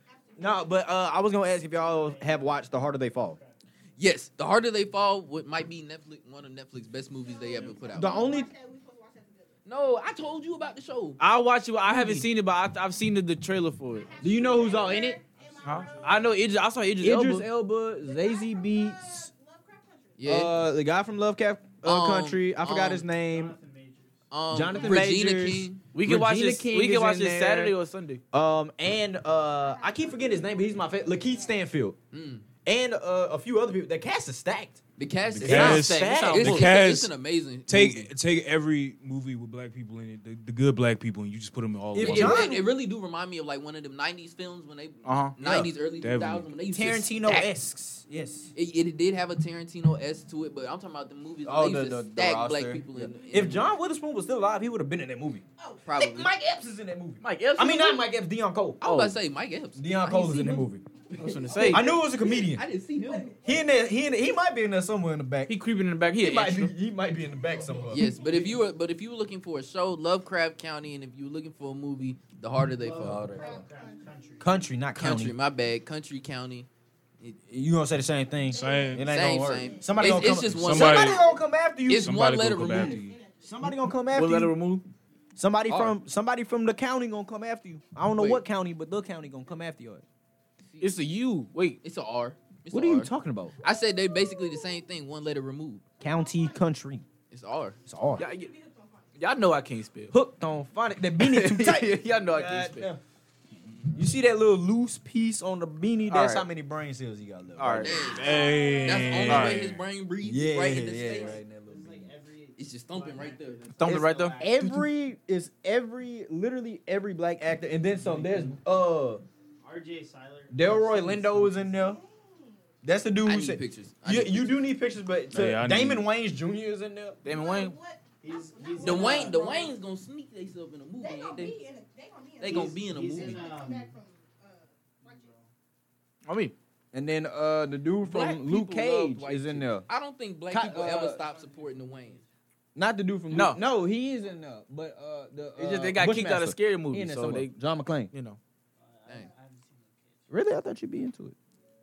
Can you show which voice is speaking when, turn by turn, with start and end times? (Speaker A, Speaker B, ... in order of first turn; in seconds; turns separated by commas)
Speaker A: 0.2-0.9, Speaker B: 0.4-3.4, Speaker C: 1.7-3.5, Speaker D: 4.0-8.2, Speaker A: 7.3-9.5, Speaker C: 7.5-7.9, Speaker B: 7.9-8.5, Speaker D: 9.7-11.2, Speaker E: 11.2-14.1, Speaker B: 11.9-12.3, Speaker A: 14.0-16.3, Speaker B: 14.2-15.2, Speaker C: 15.4-16.3, Speaker E: 15.6-17.5, Speaker B: 17.0-19.3, Speaker A: 18.0-20.2, Speaker D: 20.2-20.5, Speaker B: 20.2-23.6, Speaker D: 21.8-23.1, Speaker C: 23.2-24.2, Speaker D: 24.3-25.8, Speaker B: 24.5-27.8, Speaker E: 25.9-28.2, Speaker B: 28.3-32.0, Speaker A: 29.7-30.8, Speaker D: 32.1-32.5, Speaker B: 32.6-34.8, Speaker D: 35.0-38.1, Speaker F: 35.3-37.1, Speaker B: 35.4-36.6, Speaker E: 35.5-36.7, Speaker F: 37.7-42.5, Speaker B: 41.9-42.7, Speaker D: 42.0-47.5, Speaker E: 45.0-45.7, Speaker F: 46.0-46.5, Speaker B: 46.7-48.5, Speaker D: 48.5-53.7, Speaker B: 51.4-58.8, Speaker D: 55.9-56.3, Speaker E: 57.2-58.0, Speaker E: 58.8-59.2, Speaker D: 58.8-63.4, Speaker B: 59.8-60.8, Speaker E: 61.2-61.9, Speaker B: 61.6-62.6, Speaker A: 63.1-63.5, Speaker B: 63.4-65.6, Speaker E: 65.5-66.7, Speaker B: 66.2-68.1, Speaker D: 67.9-73.4, Speaker C: 68.2-68.4, Speaker C: 72.8-74.6, Speaker B: 73.0-73.6, Speaker A: 73.4-74.0, Speaker B: 74.4-75.3, Speaker D: 75.0-76.7, Speaker B: 77.5-82.1, Speaker F: 78.5-79.1, Speaker A: 78.5-79.0, Speaker D: 79.1-81.3, Speaker F: 80.5-81.2, Speaker D: 81.9-83.0, Speaker F: 81.9-83.2, Speaker A: 83.0-83.4, Speaker B: 83.4-84.6, Speaker E: 84.1-84.9, Speaker B: 85.4-90.0, Speaker D: 85.7-85.9, Speaker E: 88.1-88.4, Speaker D: 90.7-91.0, Speaker E: 90.8-91.8, Speaker D: 91.8-93.1, Speaker B: 92.7-93.5, Speaker D: 93.6-95.8, Speaker B: 96.0-97.1, Speaker D: 97.3-97.8, Speaker B: 97.9-98.3, Speaker E: 98.2-98.5, Speaker A: 98.2-98.9, Speaker E: 99.2-100.1, Speaker B: 100.1-103.0, Speaker E: 101.2-102.9, Speaker B: 103.9-108.0, Speaker E: 106.1-106.5, Speaker E: 107.6-108.1, Speaker D: 107.8-111.4, Speaker F: 108.0-109.8, Speaker A: 108.4-108.9, Speaker E: 109.3-109.6, Speaker B: 110.2-112.1, Speaker C: 111.0-114.8, Speaker D: 112.6-113.6, Speaker E: 113.8-114.5, Speaker B: 113.8-119.2, Speaker C: 119.6-121.7, Speaker B: 120.5-122.0, Speaker A: 121.8-122.4, Speaker B: 122.8-127.2, Speaker D: 123.2-124.7, Speaker F: 125.3-126.1, Speaker E: 127.2-127.8, Speaker A: 127.3-129.7, Speaker C: 128.2-129.7, Speaker D: 128.8-131.6, Speaker A: 131.0-135.3, Speaker D: 132.4-133.5, Speaker C: 132.4-133.9, Speaker E: 132.4-132.8, Speaker C: 135.0-135.5, Speaker E: 136.2-136.6, Speaker B: 136.9-139.9, Speaker D: 138.0-142.2, Speaker B: 140.5-141.2, Speaker C: 140.9-142.2, Speaker B: 142.8-148.1, Speaker E: 143.3-143.6, Speaker E: 145.6-147.5, Speaker E: 148.1-148.4, Speaker C: 148.8-150.3, Speaker B: 150.3-151.3